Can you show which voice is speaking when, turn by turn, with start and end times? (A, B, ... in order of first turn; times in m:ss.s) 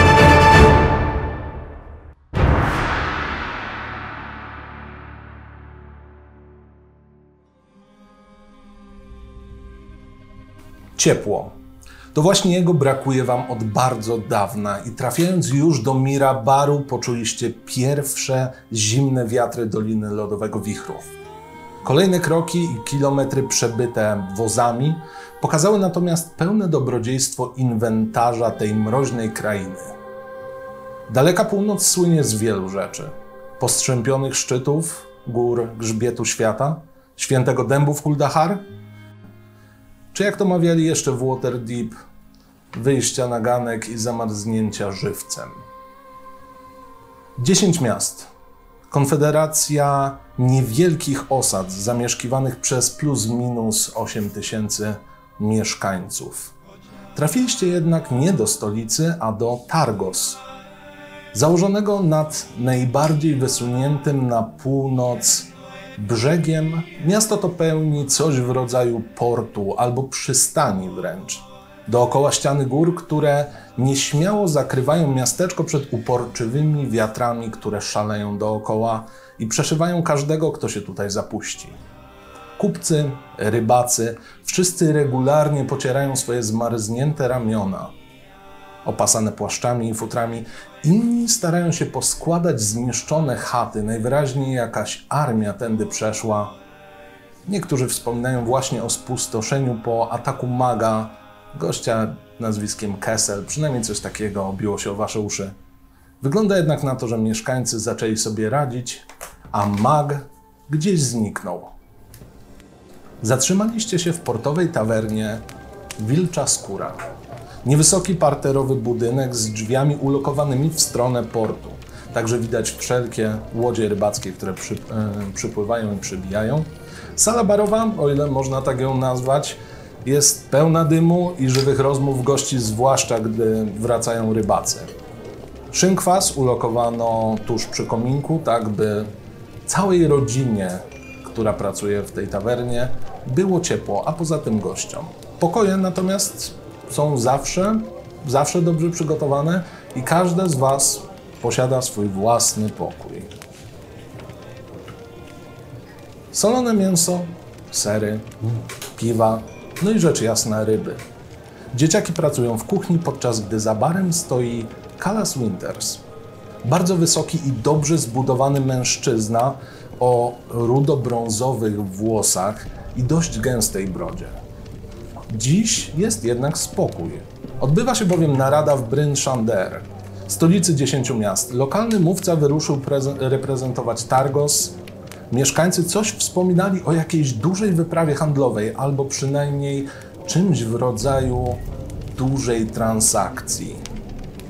0:11.0-0:11.6 A
0:12.1-0:21.1 A
0:21.8-0:30.0 A
0:31.1-0:38.6 A
0:40.1-0:42.0 A
0:42.7-0:45.6 A
0:47.4-0:48.3 A
0:48.9-0:56.5 A
0:57.1-1:00.4 A
1:01.3-1:21.8 A
1:22.6-1:27.9 A
1:28.8-1:36.6 A
1:37.4-1:45.5 A
1:46.2-1:51.7 A
1:53.2-1:55.4 A
1:56.0-1:57.0 A
1:57.6-2:14.9 A
2:15.7-2:19.1 A
2:19.6-2:33.3 A
2:36.3-2:38.4 A
2:38.9-2:41.0 A
2:41.7-2:46.0 A
2:46.6-2:54.4 A
2:55.3-3:04.8 A
3:05.3-3:11.6 A
3:12.1-3:13.8 A